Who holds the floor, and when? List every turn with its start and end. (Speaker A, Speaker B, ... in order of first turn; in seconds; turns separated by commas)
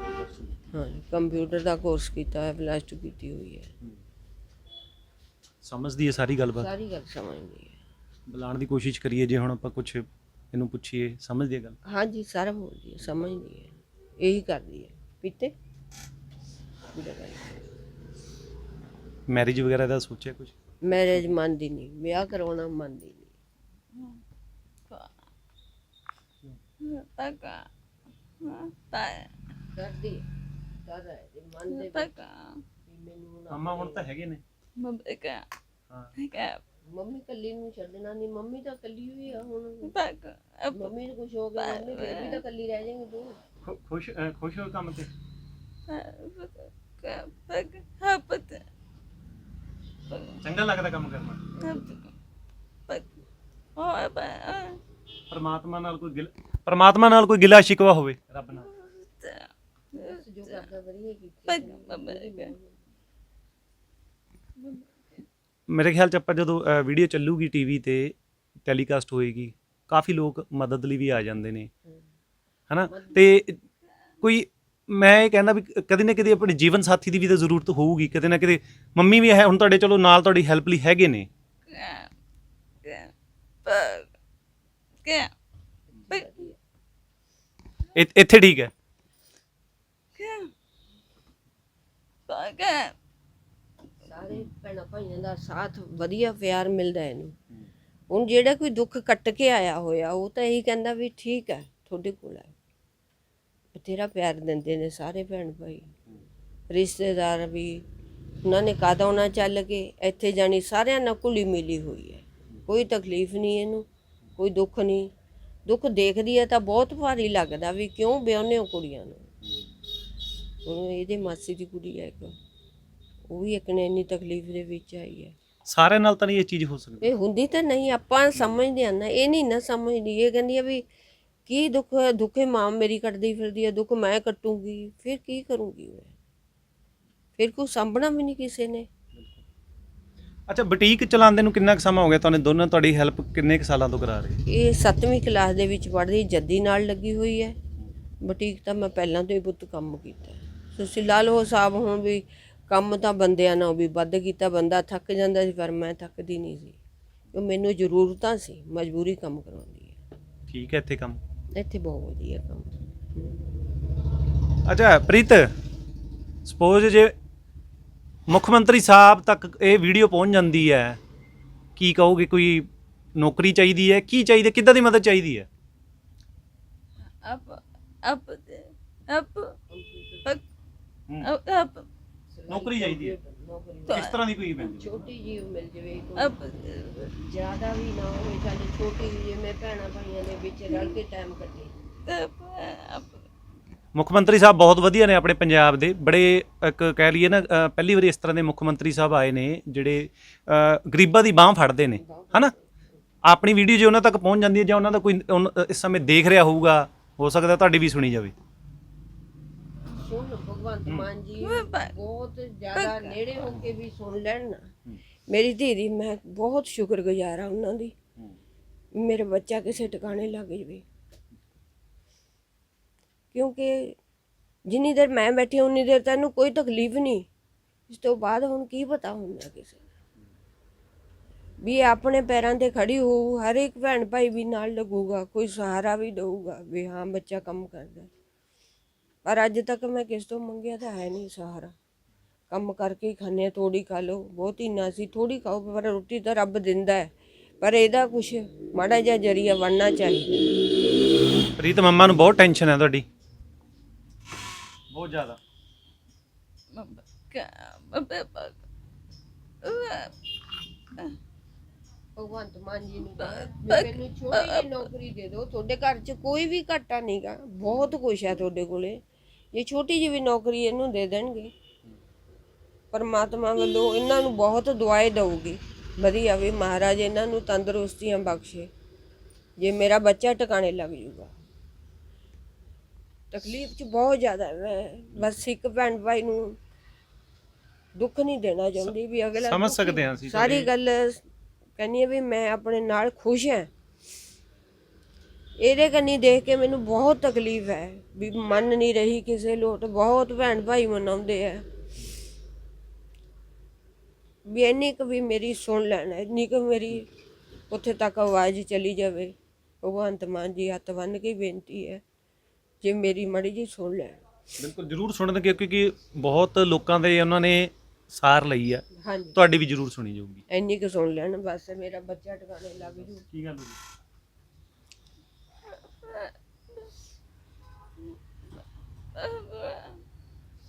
Speaker A: 0.7-3.7, Speaker B: 5.6-6.7, Speaker A: 6.6-7.8, Speaker B: 8.3-11.8, Speaker A: 11.8-15.5, Speaker A: 16.9-17.6, Speaker B: 19.3-20.5, Speaker A: 20.8-23.3, Speaker C: 23.9-24.2, Speaker C: 24.9-25.1, Speaker C: 26.8-27.7, Speaker C: 28.4-29.3, Speaker A: 29.7-30.3, Speaker A: 30.8-32.1, Speaker C: 31.7-32.6, Speaker A: 32.8-34.1, Speaker B: 33.5-34.4, Speaker C: 34.8-35.5, Speaker C: 36.1-36.6, Speaker A: 36.9-40.0, Speaker C: 39.8-40.9, Speaker A: 40.7-43.4, Speaker C: 41.6-42.4, Speaker B: 43.6-45.1, Speaker C: 45.9-48.6, Speaker C: 50.1-50.4, Speaker B: 50.4-51.6, Speaker A: 51.5-51.9, Speaker C: 51.6-52.1, Speaker C: 52.9-53.1, Speaker C: 53.8-54.8, Speaker B: 55.3-58.7, Speaker C: 58.7-60.0, Speaker A: 59.9-62.8, Speaker C: 61.5-62.5, Speaker C: 64.6-64.9, Speaker B: 65.7-71.7, Speaker B: 72.7-73.6, Speaker A: 72.9-73.2, Speaker B: 74.2-81.3, Speaker C: 81.7-82.1, Speaker C: 82.8-83.1, Speaker C: 83.6-84.1, Speaker C: 85.0-85.3, Speaker A: 86.1-86.6, Speaker B: 87.9-88.7, Speaker C: 90.2-90.5, Speaker C: 92.3-93.0, Speaker A: 94.0-97.3, Speaker A: 98.1-102.5, Speaker A: 103.7-105.9, Speaker A: 106.7-107.8, Speaker A: 108.4-113.8, Speaker A: 114.4-115.1, Speaker A: 115.7-119.3, Speaker A: 120.6-122.3, Speaker A: 123.3-125.3, Speaker B: 125.7-127.1, Speaker A: 127.0-130.8, Speaker A: 131.5-136.1, Speaker A: 137.4-138.9, Speaker B: 139.1-139.4, Speaker B: 140.5-144.4, Speaker A: 144.4-147.6, Speaker A: 148.2-156.8, Speaker A: 157.3-160.0, Speaker B: 160.5-161.2, Speaker A: 161.5-163.4, Speaker B: 164.6-165.5, Speaker B: 166.4-167.1, Speaker B: 168.3-171.0, Speaker B: 171.8-175.5, Speaker C: 177.2-179.6, Speaker A: 179.7-180.3, Speaker C: 181.2-181.9, Speaker A: 182.3-186.4, Speaker B: 182.5-183.2, Speaker C: 183.9-184.6, Speaker B: 183.9-185.0, Speaker C: 186.2-187.2, Speaker A: 187.2-191.7, Speaker C: 192.1-193.2, Speaker B: 193.9-202.5, Speaker A: 202.0-202.8, Speaker B: 203.2-208.3, Speaker A: 209.9-214.7, Speaker C: 211.4-211.9, Speaker C: 212.8-213.1, Speaker A: 215.3-217.9, Speaker A: 218.9-220.8, Speaker A: 223.3-224.0, Speaker A: 224.7-227.3, Speaker A: 227.9-229.8, Speaker A: 231.6-238.1, Speaker A: 239.2-241.7, Speaker A: 242.5-250.5, Speaker B: 251.6-253.0, Speaker B: 254.9-255.4, Speaker C: 256.7-258.6, Speaker C: 259.6-260.2, Speaker A: 262.1-269.0, Speaker C: 263.4-264.6, Speaker A: 269.5-271.5, Speaker A: 272.9-278.7, Speaker A: 279.6-281.3, Speaker A: 283.3-286.6, Speaker A: 287.9-291.2, Speaker B: 288.8-290.7, Speaker A: 291.8-293.7, Speaker A: 295.6-301.6, Speaker A: 304.5-307.1, Speaker A: 307.7-312.0, Speaker A: 312.8-314.2, Speaker B: 314.6-320.4, Speaker A: 319.0-319.4, Speaker A: 320.5-323.2, Speaker B: 323.2-323.8, Speaker C: 326.0-326.3, Speaker C: 329.1-330.0